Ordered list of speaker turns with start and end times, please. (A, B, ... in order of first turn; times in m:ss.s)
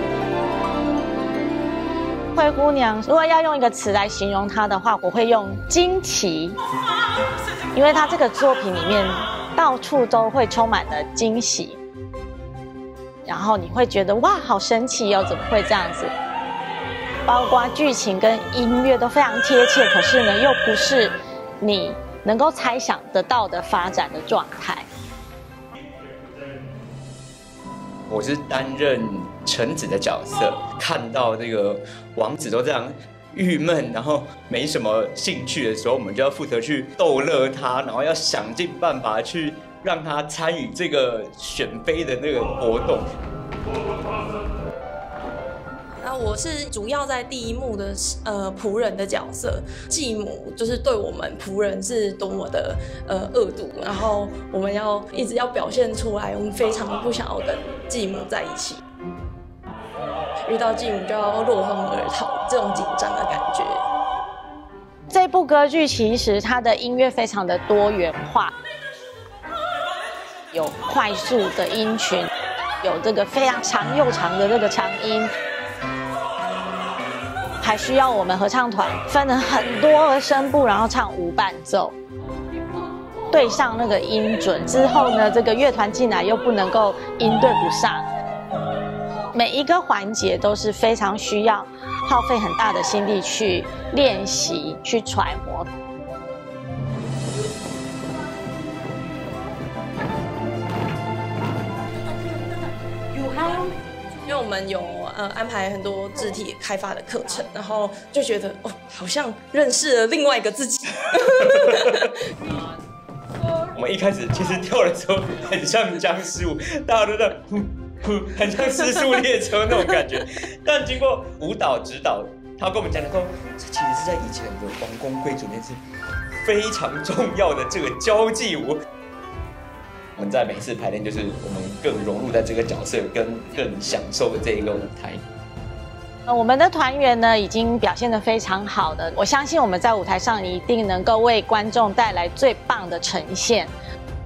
0:02.3-0:06.6 A
0:07.7-0:11.8 A
0:13.2-0:16.1 A
0:17.3-0:24.9 A
0:28.1-0:43.1 B
0:46.0-0:58.8 C
1:00.5-1:03.9 C
1:05.1-1:08.5 A
1:10.5-1:12.3 A
1:12.8-1:15.3 A
1:17.6-1:21.9 A
1:23.3-1:28.0 A
1:29.3-1:35.7 A
1:44.2-1:52.1 C
1:51.4-1:52.1 B
1:53.7-2:05.8 B
1:58.6-2:00.2 C
2:06.4-2:08.8 B
2:10.2-2:15.2 B
2:16.3-2:23.7 A